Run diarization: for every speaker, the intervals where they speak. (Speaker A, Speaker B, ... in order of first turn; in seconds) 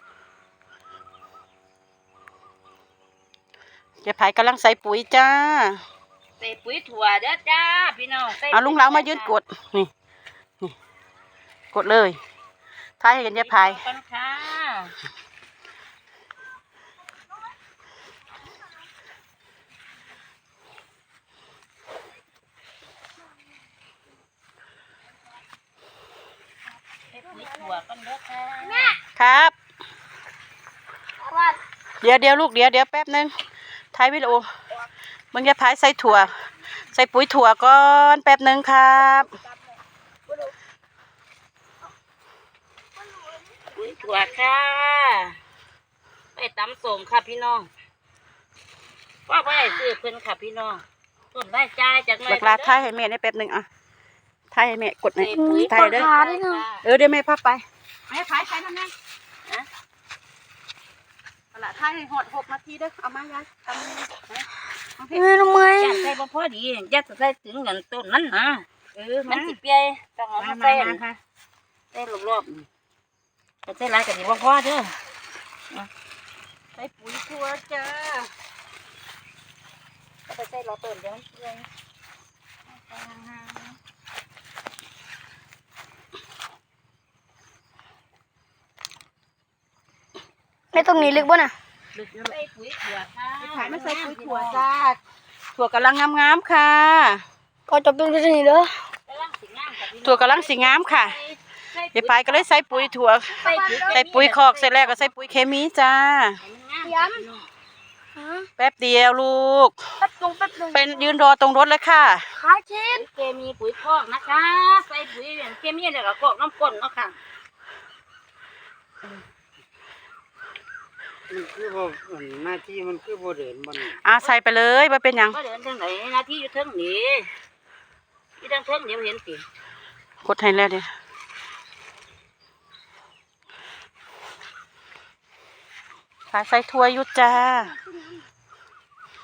Speaker A: 4.0-5.8, 8.5-9.9, 11.7-12.2, 13.0-13.8, 29.1-29.5, 32.0-33.3, 33.9-34.5, 35.3-36.3, 36.9-39.3, 52.3-53.7, 54.5-56.1, 56.8-58.9, 61.5-64.4, 65.0-65.2, 69.2-69.6, 70.4-71.1, 76.8-77.9, 90.8-91.2, 93.4-95.0, 95.5-97.2, 100.0-101.2, 101.9-106.4, 108.6-109.8, 110.7-112.3, 124.0-125.4, 130.2-130.9, 136.3-137.8
Speaker B: 6.4-9.3, 13.2-14.9, 27.1-29.0, 43.7-45.4, 46.3-47.7, 49.3-52.8, 55.2-56.8, 65.8-71.0, 71.9-72.7, 73.7-75.0, 77.8-78.2, 80.3-81.7, 82.7-83.8, 92.0-94.7, 99.0-105.4, 106.4-107.5, 112.9-117.2, 125.3-127.3, 128.4-129.4
Speaker C: 27.3-27.7, 28.6-29.0, 31.2-31.6, 39.2-39.7, 40.3-40.5, 43.0-44.2, 55.3-56.6, 65.1-66.1, 90.7-91.5, 97.7-98.8, 103.4-104.0, 106.8-107.2, 108.2-108.5, 110.0-111.1, 112.4-113.0, 137.5-138.2
Speaker D: 121.3-124.0